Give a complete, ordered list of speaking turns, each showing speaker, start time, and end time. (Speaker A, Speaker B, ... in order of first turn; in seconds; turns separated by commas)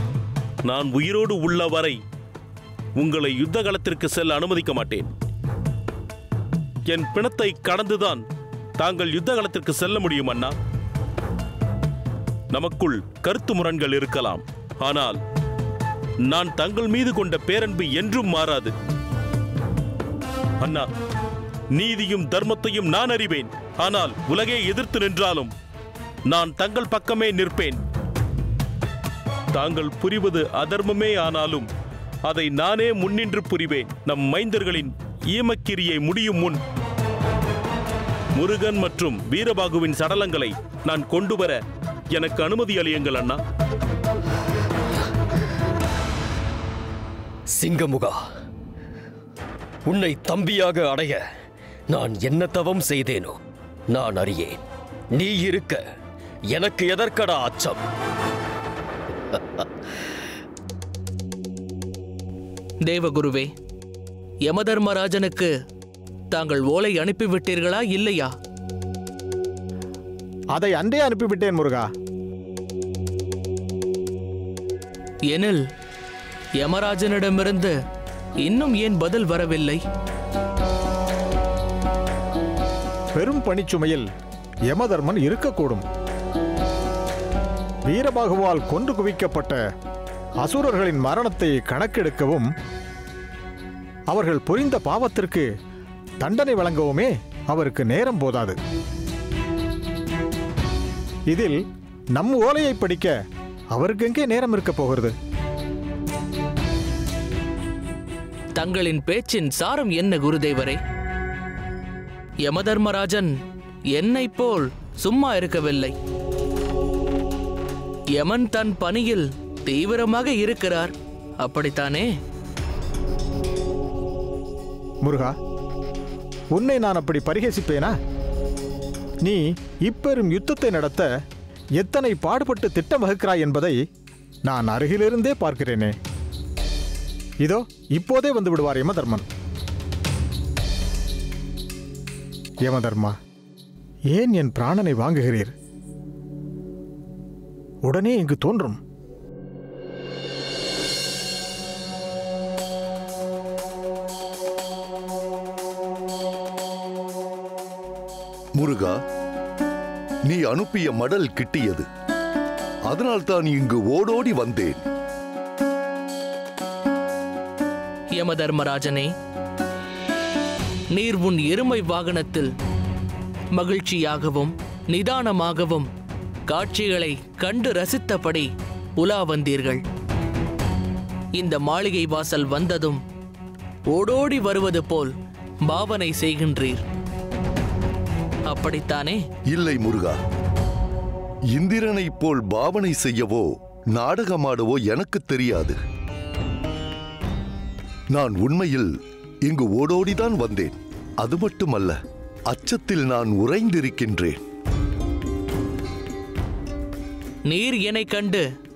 Speaker A: 0.7-1.9, Speaker A: 3.0-5.1, Speaker A: 6.9-8.2, Speaker A: 8.8-10.5, Speaker A: 12.5-15.2, Speaker A: 16.3-18.7, Speaker A: 21.7-25.5, Speaker A: 26.3-27.8, Speaker A: 29.5-31.7, Speaker A: 32.3-36.6, Speaker A: 38.4-41.6, Speaker A: 42.1-43.4, Speaker B: 47.5-48.2, Speaker B: 49.9-51.2, Speaker B: 51.9-53.4, Speaker B: 53.9-55.8, Speaker B: 56.5-57.8, Speaker B: 59.3-59.6, Speaker C: 62.8-63.5, Speaker C: 64.5-65.5, Speaker C: 66.3-68.3, Speaker D: 70.5-71.9, Speaker C: 75.3-75.6, Speaker C: 76.6-77.7, Speaker C: 78.4-79.8, Speaker D: 83.2-84.1, Speaker D: 84.7-85.8, Speaker D: 87.9-89.6, Speaker D: 90.4-92.5, Speaker D: 94.1-95.5, Speaker D: 96.2-98.6, Speaker D: 101.3-101.6, Speaker D: 102.2-103.1, Speaker D: 103.7-105.1, Speaker C: 108.5-110.8, Speaker C: 112.4-113.3, Speaker C: 113.9-115.9, Speaker C: 118.1-122.1, Speaker D: 125.0-125.3, Speaker D: 126.5-127.9, Speaker D: 129.2-131.1, Speaker D: 131.8-133.8, Speaker D: 134.5-135.9, Speaker D: 137.4-139.2, Speaker D: 142.6-143.1, Speaker D: 144.1-145.5, Speaker D: 147.8-148.8, Speaker E: 158.6-158.9, Speaker E: 160.2-161.8, Speaker E: 162.9-164.8, Speaker C: 168.1-169.1, Speaker C: 170.9-172.5, Speaker C: 173.5-175.9, Speaker C: 176.5-179.8, Speaker C: 181.3-183.0, Speaker C: 183.9-185.1, Speaker C: 185.6-186.8, Speaker C: 188.5-189.2, Speaker E: 189.5-190.2, Speaker E: 191.5-195.8, Speaker E: 198.1-198.9, Speaker E: 199.4-202.0, Speaker E: 202.5-204.4, Speaker C: 207.5-208.4